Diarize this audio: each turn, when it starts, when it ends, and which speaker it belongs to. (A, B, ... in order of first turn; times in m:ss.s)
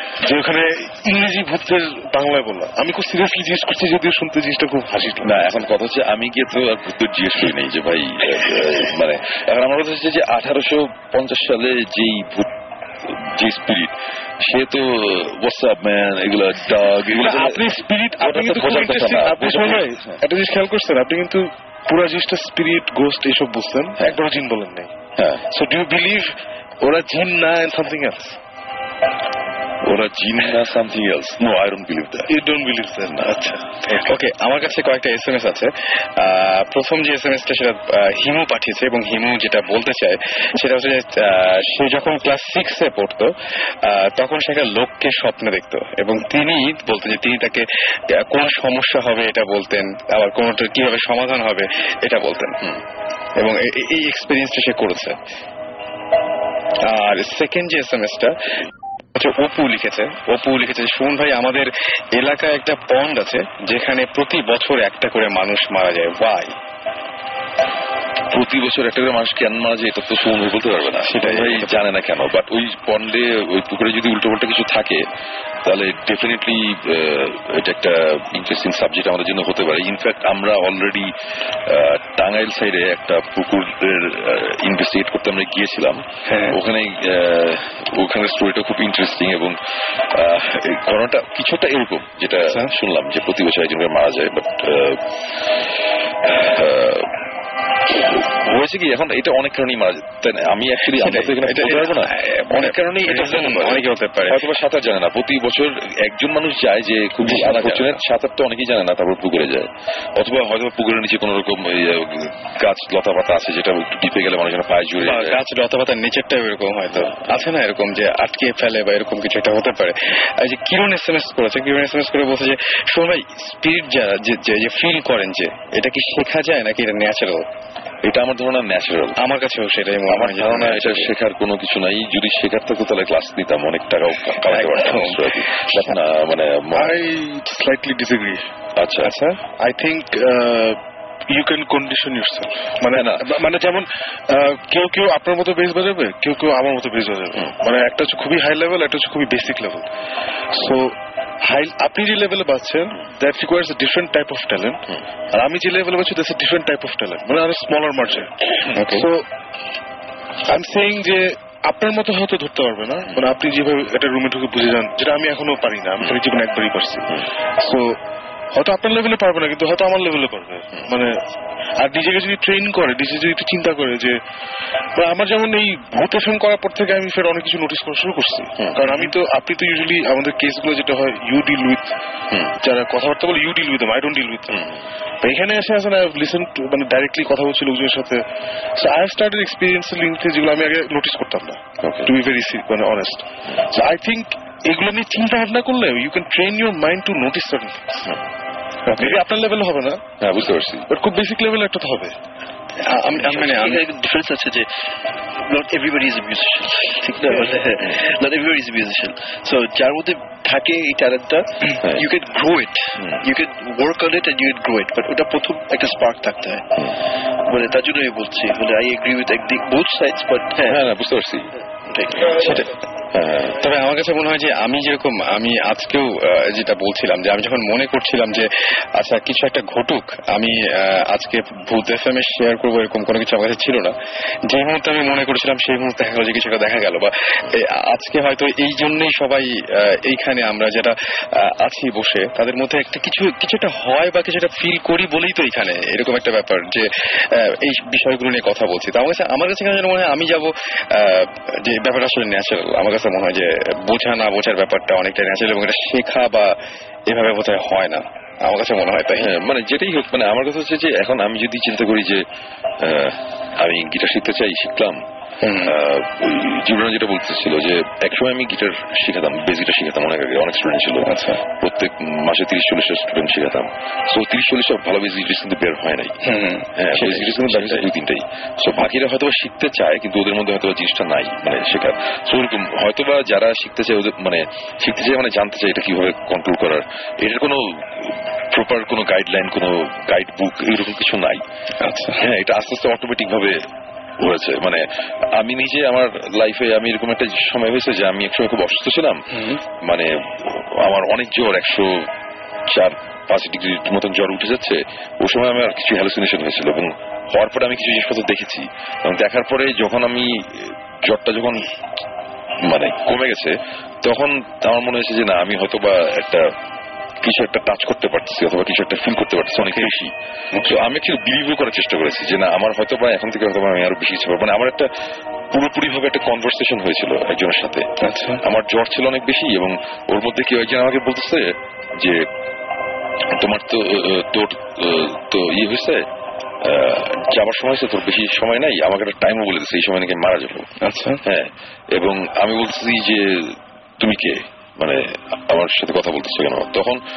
0:00.2-0:05.7 A
0:05.2-0:12.5 B
0:13.0-0:20.2 B
0:17.1-0:24.9 A
0:25.2-0:25.4 B
0:25.5-0:28.4 A
0:29.8-0:32.3 B
0:32.3-0:34.1 A
0:34.0-0:52.6 C
0:53.4-0:55.2 C
0:56.8-1:06.5 C
1:08.3-1:15.1 B
1:11.0-1:11.8 C
1:15.6-1:21.1 B
1:21.7-1:29.6 B
1:26.3-1:26.6 C
1:30.1-1:35.1 B
1:32.4-1:32.7 C
1:36.2-1:37.2 B
1:37.8-1:55.4 B
1:40.8-1:44.5 C
1:47.2-1:48.0 C
1:55.0-2:07.5 C
2:08.0-2:09.2 B
2:09.2-2:11.1 C
2:10.1-2:17.0 B
2:14.4-2:16.0 C
2:16.7-2:18.5 A
2:18.8-2:19.1 B
2:19.0-2:19.4 C
2:19.5-2:29.9 A
2:22.9-2:23.3 B
2:30.5-2:34.8 A
2:35.3-2:39.2 A
2:38.7-2:39.1 C
2:40.4-2:48.0 A
2:48.5-2:51.2 A
2:51.8-2:54.2 A
2:55.0-3:01.9 A
2:58.6-2:59.1 B
3:02.6-3:04.6 A
3:04.5-3:04.8 B
3:05.2-3:08.2 A
3:08.8-3:18.1 A
3:11.8-3:12.1 B
3:19.0-3:20.0 A
3:20.2-3:20.9 B
3:20.9-3:22.1 A
3:22.8-3:23.9 C
3:23.2-3:24.7 D
3:25.4-3:36.7 D
3:33.0-3:33.2 B
3:37.4-3:40.8 D
3:40.6-3:43.6 B
3:42.3-3:42.7 C
3:43.6-3:54.0 C
3:54.5-4:16.6 C
4:17.1-4:19.3 C
4:19.2-4:22.2 B
4:22.8-4:25.0 B
4:25.4-4:25.8 C
4:25.6-4:36.2 B
4:31.0-4:31.4 C
4:36.2-4:37.9 C
4:36.8-4:51.4 B
4:51.8-4:52.2 C
4:52.2-4:53.6 B
4:54.2-4:59.2 B
4:59.3-4:59.6 C
4:59.8-5:02.1 B
5:02.7-5:11.7 B
5:12.6-5:16.5 B
5:17.2-5:24.9 B
5:20.5-5:20.8 C
5:25.5-5:27.9 B
5:28.0-5:28.4 C
5:28.4-5:32.2 B
5:33.3-5:36.0 B
5:36.6-5:40.7 B
5:40.8-5:41.2 C
5:41.2-5:47.0 B